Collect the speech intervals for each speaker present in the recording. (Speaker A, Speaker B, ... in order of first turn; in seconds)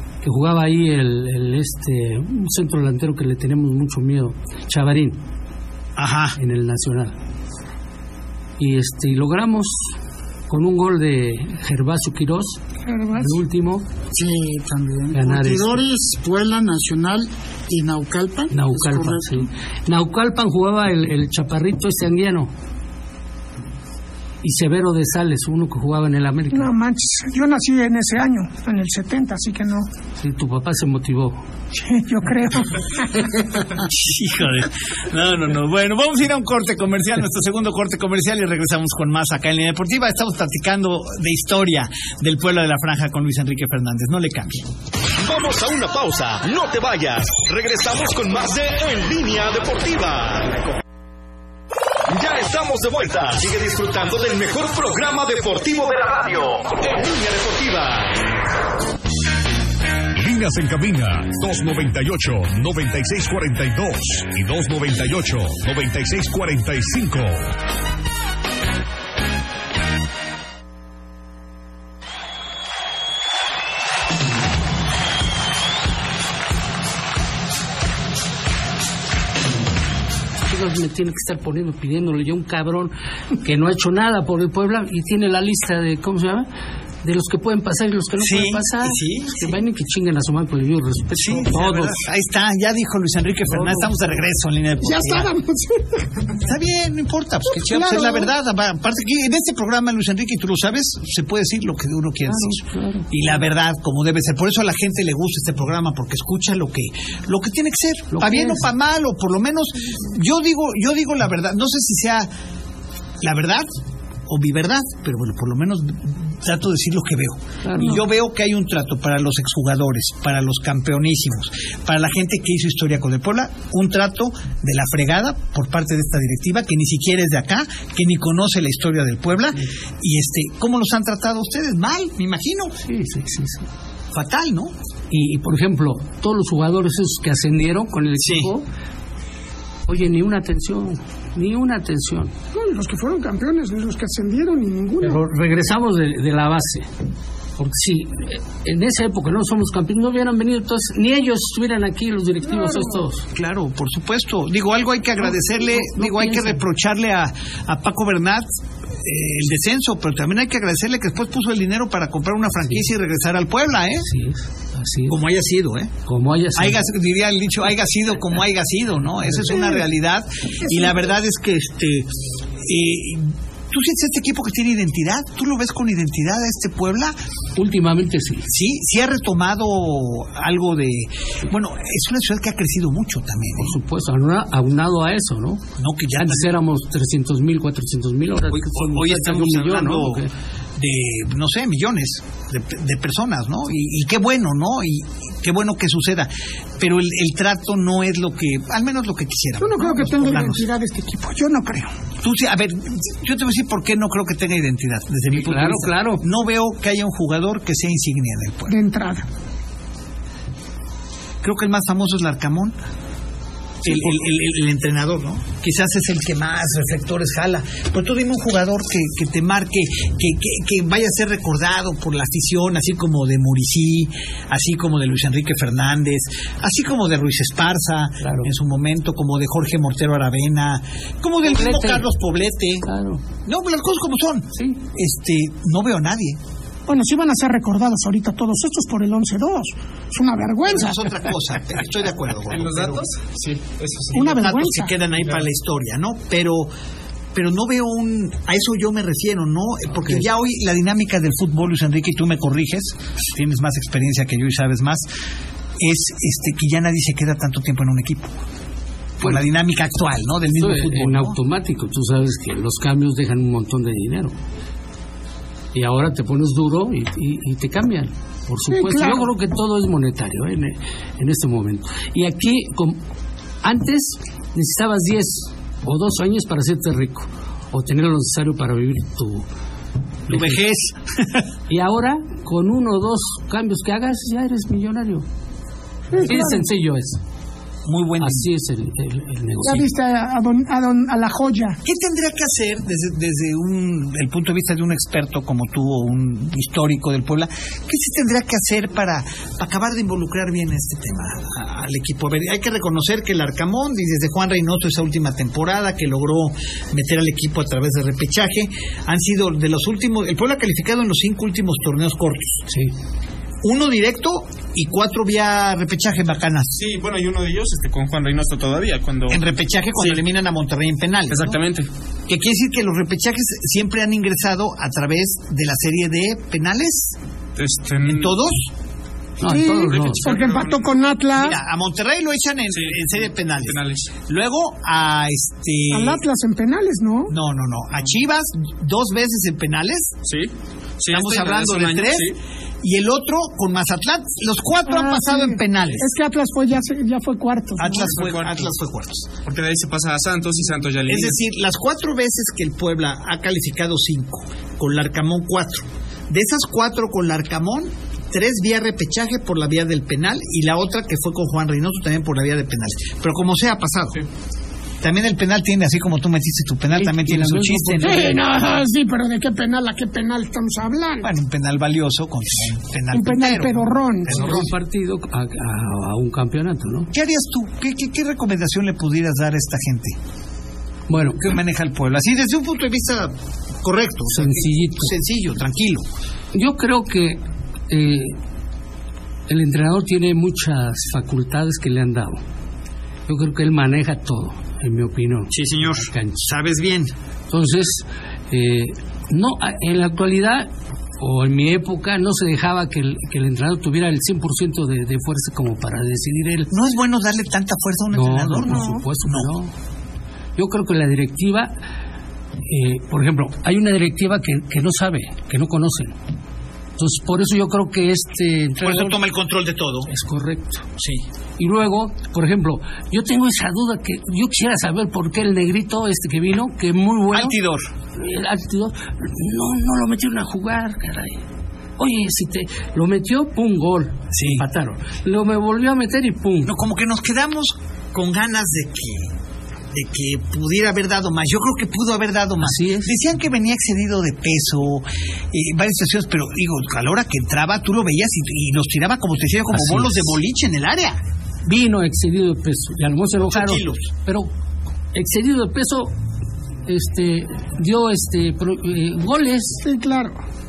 Speaker A: 0.2-5.2, 6.4-7.1, 8.6-9.9, 10.5-12.6, 13.1-13.8, 15.1-15.8, 18.5-22.5, 24.4-26.7, 30.2-31.4, 80.5-86.5, 87.0-92.0, 93.5-94.1, 102.2-103.1, 108.1-108.7, 117.6-118.0, 132.8-133.7, 135.1-138.6, 139.9-142.3, 145.0-146.9, 147.6-153.2, 155.6-156.6, 164.0-165.2, 166.1-166.8, 177.6-178.5, 183.6-185.6, 186.2-190.3, 205.3-206.2, 228.2-228.5, 231.4-232.1, 232.8-233.2, 260.5-264.3, 265.7-273.0, 273.6-279.4, 280.3-280.6, 281.7-285.2, 286.2-287.2, 288.2-289.9, 329.4-330.4, 366.9-368.4, 374.3-377.1, 381.1-381.4, 384.3-385.1, 386.5-388.3, 389.5-392.4, 393.3-396.5, 397.5-406.7, 408.1-409.7, 410.6-411.7, 412.6-416.1, 417.0-419.2, 420.1-420.8, 421.6-427.6, 428.1-431.4, 432.0-436.7, 442.6-443.1, 449.7-450.3, 451.6-454.5, 455.1-456.1, 456.9-459.8
Speaker B: 6.0-6.4, 33.8-44.6, 88.2-89.6, 91.1-95.3, 96.4-112.3, 113.2-113.7, 114.3-132.7, 134.1-134.7, 138.2-138.5, 153.3-158.4, 159.0-164.1, 165.1-165.9, 166.5-172.1, 172.6-177.2, 178.5-183.8, 185.8-186.6, 188.5-190.2, 190.8-200.6, 202.2-208.7, 211.4-212.7, 213.8-232.8, 233.4-236.4, 240.7-243.0, 244.2-246.7, 247.3-255.1, 255.8-258.3, 259.2-261.4, 280.3-281.4, 287.9-288.5, 291.8-312.6, 313.6-316.8, 319.3-321.6, 322.3-327.1, 328.0-328.7, 331.3-336.2, 337.3-340.2, 341.1-346.1, 347.8-349.3, 351.1-364.2, 365.0-368.4, 371.2-374.7, 377.1-380.1, 381.4-386.1, 395.5-397.1, 406.7-409.5, 418.8-420.1, 421.0-421.2, 427.3-427.9, 434.3-434.6, 436.6-439.3, 439.9-451.2, 453.4-454.1
Speaker C: 12.8-13.4, 26.5-29.9, 31.8-33.4, 94.8-96.3, 97.5-98.3, 142.5-145.2, 152.4-153.0, 170.7-170.9, 199.6-201.9, 208.7-209.2, 236.9-241.1, 244.1-244.9, 268.7-269.3, 286.1-286.6, 289.6-291.8, 329.4-331.6, 335.9-337.3, 344.9-348.0, 368.0-371.3, 373.1-374.5, 408.7-409.0, 459.8-460.4
Speaker D: 14.1-19.5
Speaker E: 45.1-50.8, 52.1-58.3
Speaker F: 60.1-67.5
Speaker G: 242.5-244.4, 316.7-319.4, 321.3-321.9, 327.6-328.4, 329.9-331.1, 332.7-334.1, 340.2-342.4, 347.9-348.7, 349.4-351.4